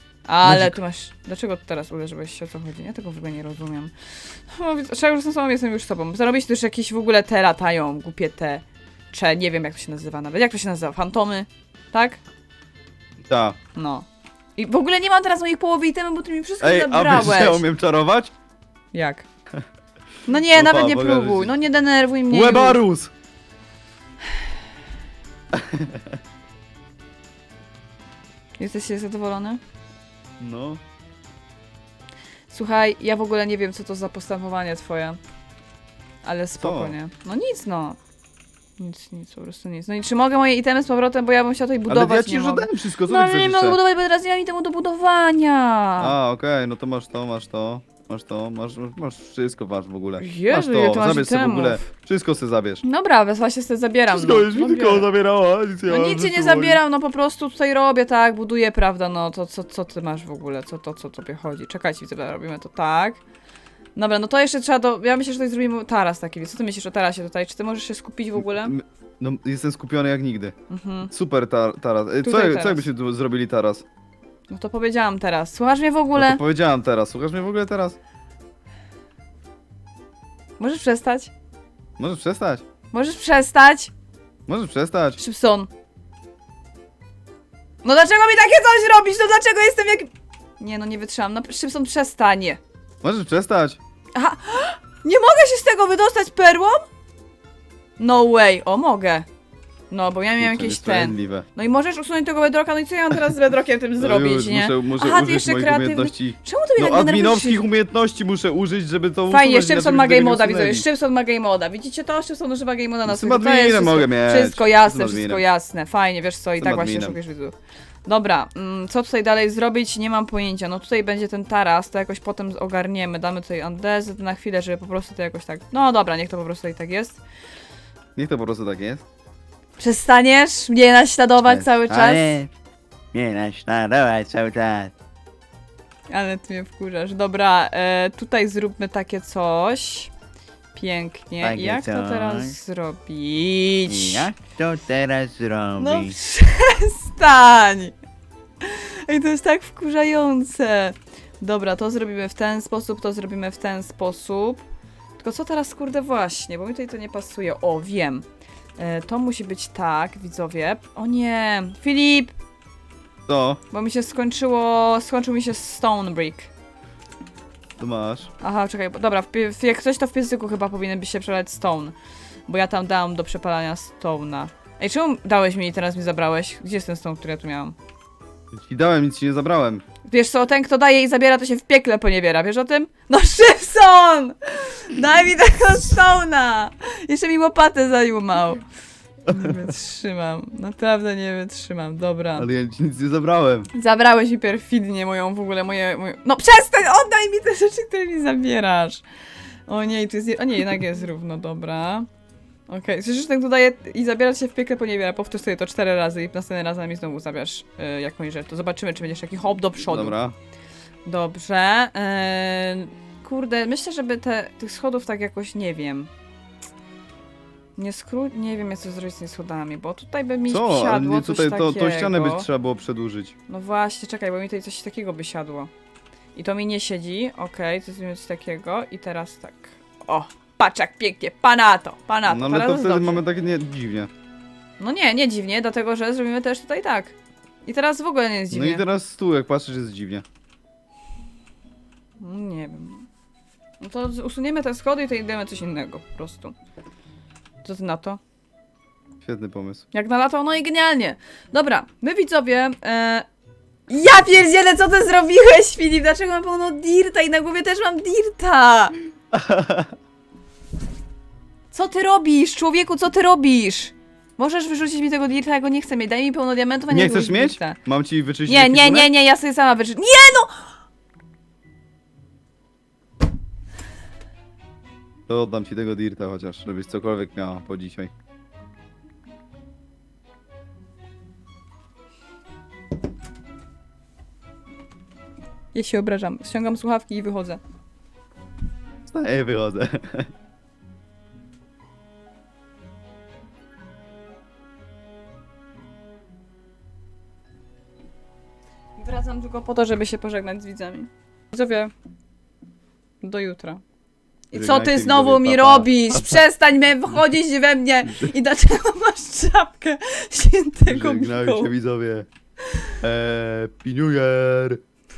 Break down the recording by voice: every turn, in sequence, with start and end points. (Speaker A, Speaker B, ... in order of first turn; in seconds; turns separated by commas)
Speaker A: 0.3-12.2, Speaker B: 0.4-0.8, Speaker B: 13.2-13.6, Speaker A: 13.7-14.1, Speaker A: 14.6-17.6, Speaker B: 16.6-18.3, Speaker A: 18.9-19.2, Speaker A: 20.2-22.8, Speaker B: 20.4-21.5, Speaker B: 22.3-23.1, Speaker B: 25.5-26.1, Speaker A: 28.6-29.6, Speaker B: 30.4-30.8, Speaker A: 32.5-35.2, Speaker A: 36.2-38.0, Speaker B: 36.6-36.9, Speaker A: 38.8-46.1, Speaker B: 41.9-43.8, Speaker B: 46.0-52.8, Speaker A: 50.2-51.9, Speaker A: 52.8-55.1, Speaker B: 54.1-56.8, Speaker A: 55.9-63.2, Speaker A: 63.9-68.7, Speaker B: 68.4-70.5, Speaker A: 70.7-71.1, Speaker B: 71.1-73.8, Speaker A: 72.2-72.8, Speaker A: 74.5-76.4, Speaker B: 76.2-78.0, Speaker A: 80.6-81.3, Speaker B: 82.0-82.6, Speaker A: 82.9-83.9, Speaker B: 84.5-85.2, Speaker A: 85.2-85.7, Speaker A: 87.8-92.6, Speaker B: 93.0-93.8, Speaker A: 94.1-96.9, Speaker A: 98.0-99.2, Speaker A: 99.9-107.6, Speaker B: 100.4-101.5, Speaker B: 104.0-110.8, Speaker A: 109.3-117.5, Speaker B: 113.0-115.4, Speaker B: 116.6-117.2, Speaker A: 118.0-127.2, Speaker B: 128.2-129.0, Speaker A: 129.8-132.4, Speaker C: 131.4-132.5, Speaker C: 133.1-134.9, Speaker A: 136.1-140.1, Speaker A: 140.7-144.3, Speaker C: 141.4-142.5, Speaker C: 143.9-146.2, Speaker A: 145.8-147.9, Speaker A: 148.6-154.6, Speaker A: 155.2-158.2, Speaker A: 158.8-162.3, Speaker B: 163.3-163.6, Speaker A: 163.7-166.5, Speaker B: 167.8-168.3, Speaker A: 168.4-171.9, Speaker A: 172.5-177.8, Speaker B: 178.5-179.8, Speaker A: 180.1-188.7, Speaker A: 189.2-192.5, Speaker B: 189.3-189.6, Speaker B: 192.3-193.7, Speaker A: 193.7-199.0, Speaker A: 199.7-202.1, Speaker A: 202.7-210.2, Speaker B: 209.9-210.3, Speaker A: 211.0-216.1, Speaker A: 217.8-222.5, Speaker B: 220.5-223.3, Speaker A: 223.5-225.7, Speaker A: 226.3-233.2, Speaker B: 232.2-234.1, Speaker A: 234.8-238.8, Speaker B: 238.5-240.2, Speaker A: 242.2-243.1, Speaker A: 243.8-246.5, Speaker A: 247.6-248.2, Speaker B: 249.2-249.8, Speaker A: 249.9-253.2, Speaker A: 253.9-258.9, Speaker B: 259.3-259.9, Speaker A: 261.7-267.8, Speaker B: 266.9-269.1, Speaker A: 268.4-270.5, Speaker B: 275.3-278.1, Speaker A: 285.7-287.6, Speaker B: 289.1-290.3, Speaker A: 299.0-301.9, Speaker A: 303.2-303.8, Speaker A: 304.5-311.7, Speaker B: 304.5-306.4, Speaker B: 308.0-308.3, Speaker B: 310.9-312.3, Speaker B: 313.0-314.8